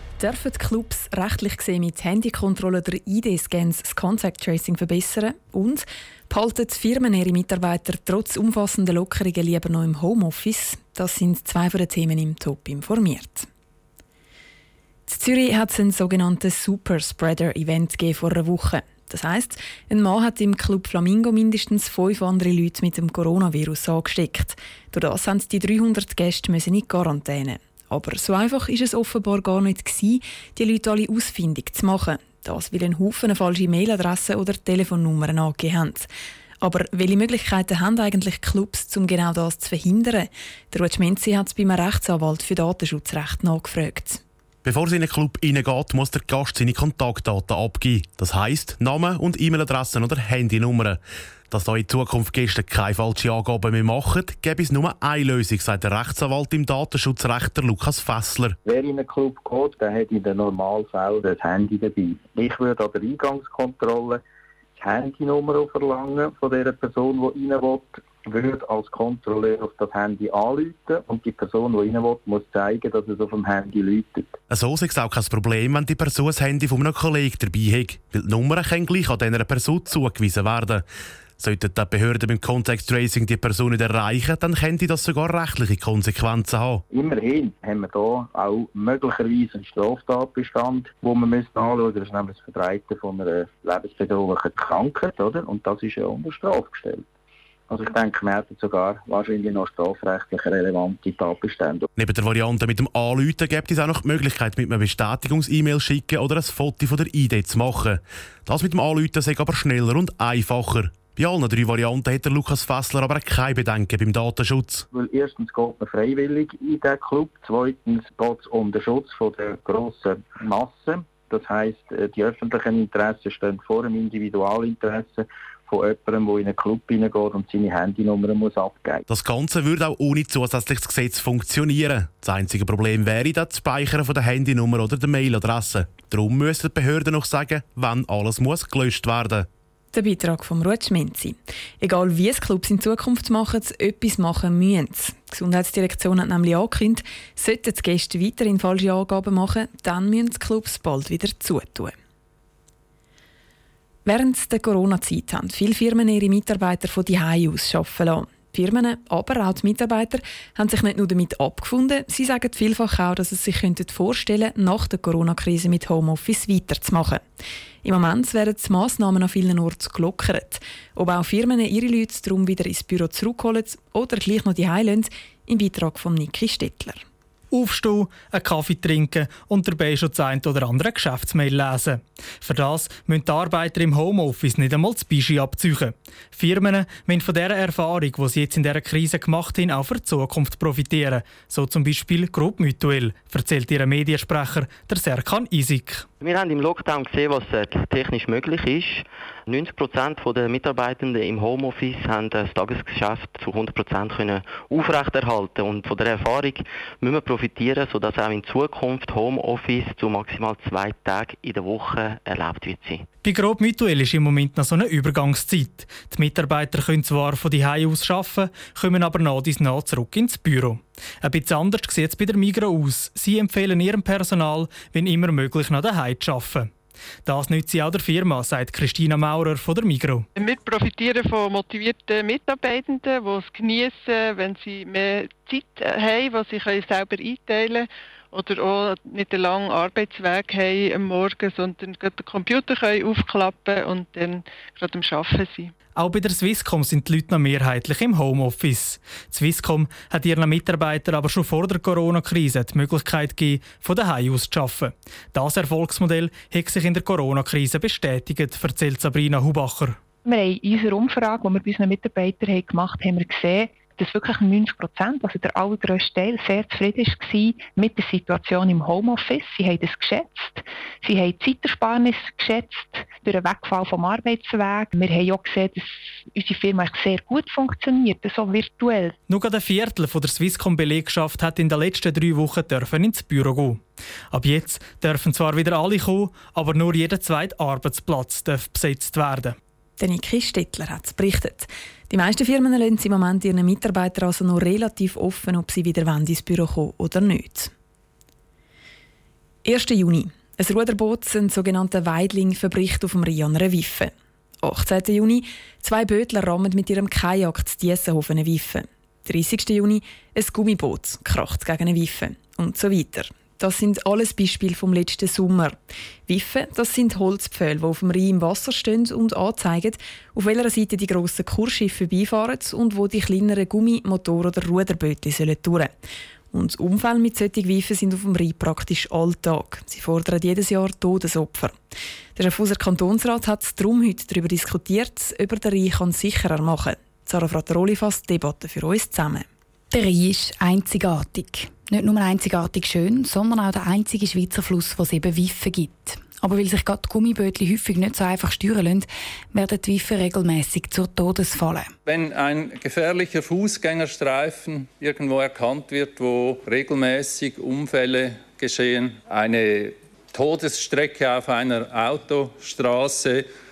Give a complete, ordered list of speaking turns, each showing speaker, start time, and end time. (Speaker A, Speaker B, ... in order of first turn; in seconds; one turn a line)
Speaker A: 0.2-13.5
Speaker A: 15.1-36.1
Speaker A: 36.6-44.2
Speaker B: 44.6-51.0
Speaker B: 51.5-58.5
Speaker C: 58.6-64.2
Speaker C: 64.8-74.3
Speaker B: 74.5-80.8
Speaker B: 81.4-86.8
Speaker C: 86.9-97.0
Speaker C: 97.7-101.9
Speaker B: 102.0-114.8
Speaker C: 114.9-129.0
Speaker B: 129.1-139.5
Speaker A: 139.9-151.9
Speaker A: 154.0-167.2
Speaker A: 167.8-177.0
Speaker D: 177.5-196.1
Speaker E: 196.2-213.0
Speaker D: 213.2-226.7
Speaker D: 227.2-230.3
Speaker F: 230.3-245.7
Speaker D: 245.9-260.0
Speaker G: 260.2-279.1
Speaker D: 279.3-289.6
Speaker A: 290.0-297.7
Speaker A: 299.6-304.1
Speaker A: 304.6-325.9
Speaker A: 326.5-331.8
Speaker A: 332.4-339.5
Speaker H: 339.9-351.9
Speaker I: 352.1-363.4